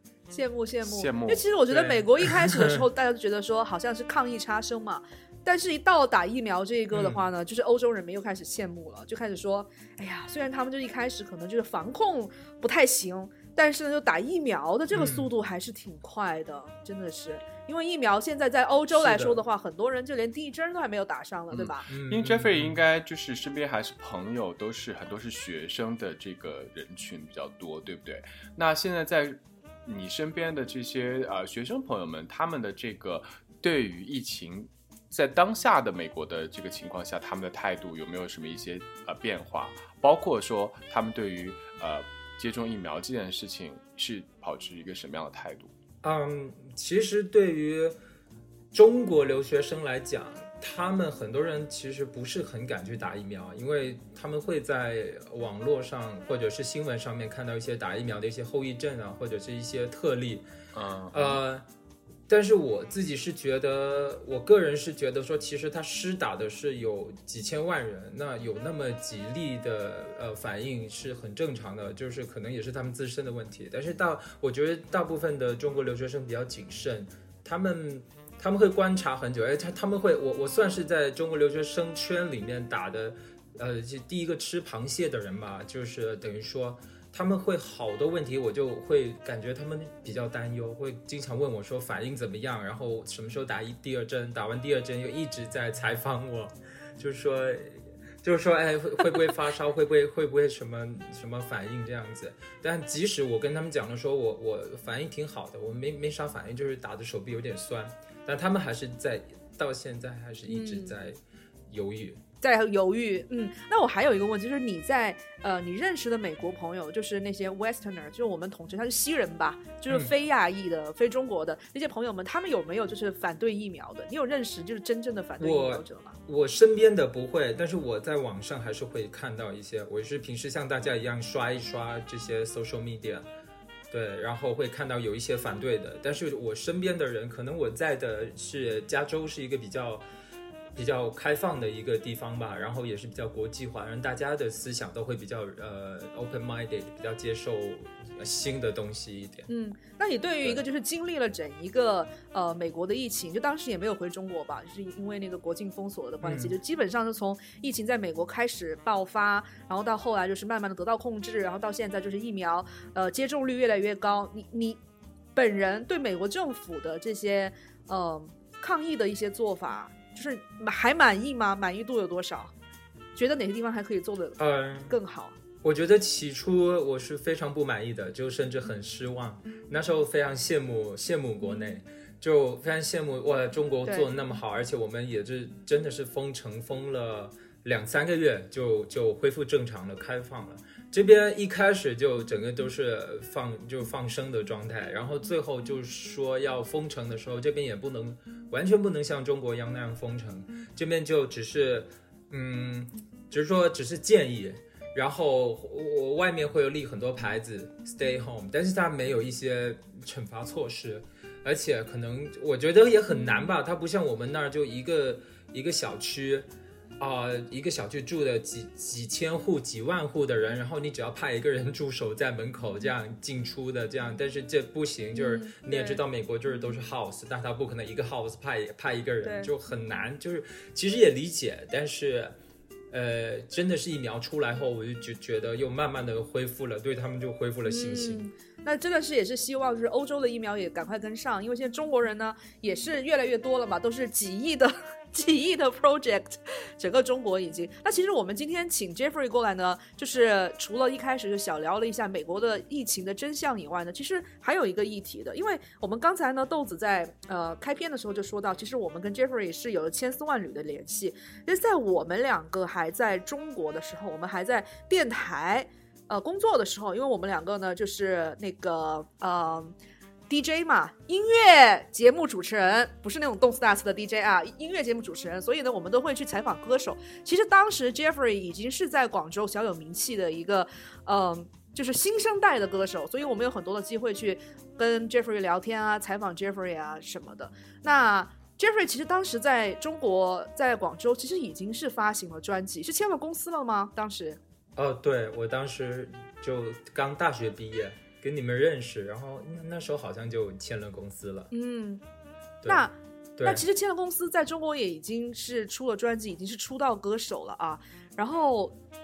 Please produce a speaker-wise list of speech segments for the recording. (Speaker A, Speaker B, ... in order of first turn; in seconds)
Speaker A: 0.3-21.9, 110.5-110.9, 112.4-126.2, 149.5-164.8, 165.3-172.5, 173.2-174.4, 174.9-175.3, 213.1-213.5, 225.1-226.0, 229.2-229.5, 237.7-269.7, 270.3-294.4, 301.5-302.0, 302.6-308.7
Speaker B: 0.8-1.5, 21.5-45.7, 60.7-61.4
Speaker C: 1.7-2.8, 6.9-7.3, 14.9-15.3, 18.9-19.4, 21.9-22.8, 46.0-47.9, 48.7-60.4, 61.1-61.6, 62.3-111.2, 111.7-112.2, 125.4-133.2, 133.9-140.0, 140.8-149.4, 156.2-156.6, 174.4-174.9, 175.6-216.4, 217.0-232.3, 232.9-238.2, 294.8-301.5, 302.6-303.6